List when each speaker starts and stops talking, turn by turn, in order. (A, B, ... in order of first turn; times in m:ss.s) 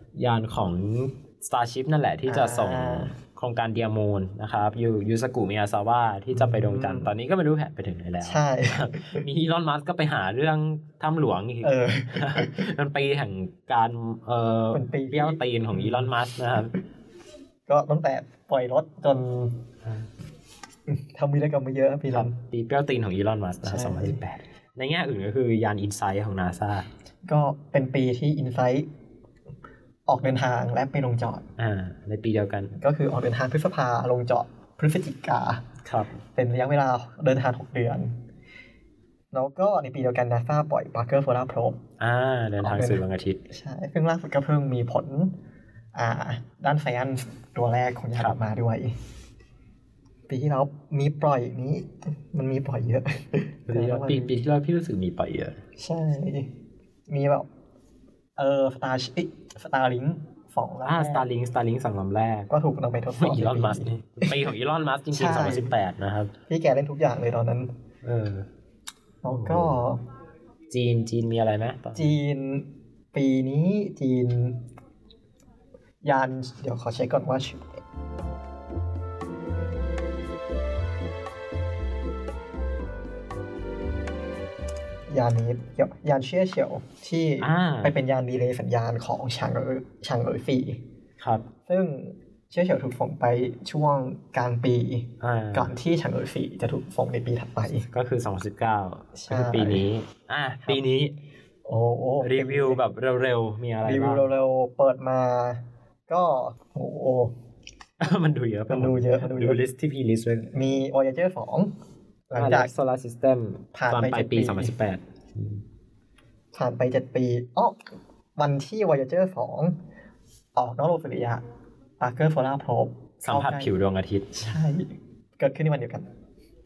0:00.2-0:16.8 A
0:02.3-0:03.1 B
0:06.3-0:07.1 B
0:08.2-0:09.2 B
0:11.6-0:12.7 B
0:14.7-0:16.1 B
0:17.7-0:19.6 B
0:20.9-0:22.4 B
0:22.1-0:26.9 A
0:23.6-0:24.2 B
0:27.2-0:28.9 B
0:30.1-0:31.5 B
0:31.6-0:32.8 A
0:32.8-0:35.6 B
0:35.8-0:36.2 A
0:36.4-0:38.1 B
0:39.3-0:41.8 B
0:42.0-0:43.4 A
0:42.6-0:45.3 B
0:45.9-0:48.9 B
0:50.3-0:54.3 B
0:53.7-0:55.6 A
0:55.8-0:56.5 B
0:57.1-0:57.5 B
0:58.4-1:01.3 B
1:00.8-1:02.5 A
1:02.5-1:04.5 B
1:03.2-1:06.3 A
1:05.1-1:05.7 B
1:06.5-1:07.7 B
1:08.0-1:08.5 A
1:09.2-1:10.0 B
1:09.3-1:09.7 A
1:10.7-1:12.2 A
1:12.0-1:14.6 B
1:16.0-1:17.7 B
1:25.1-1:30.8 B
1:27.4-1:27.9 A
1:31.2-1:31.4 A
1:31.7-1:37.9 B
1:35.2-1:35.7 A
1:37.9-1:41.1 A
1:39.2-1:39.8 B
1:41.7-1:42.8 B
1:42.2-1:44.3 A
1:43.8-1:47.3 B
1:48.0-1:50.5 A
1:48.7-1:49.6 B
1:50.5-1:51.7 B
1:52.3-1:52.7 B
1:52.4-1:55.6 A
1:53.7-1:54.7 B
1:56.5-1:59.8 B
2:00.6-2:01.4 B
2:02.0-2:03.7 B
2:03.2-2:04.6 A
2:04.4-2:06.1 B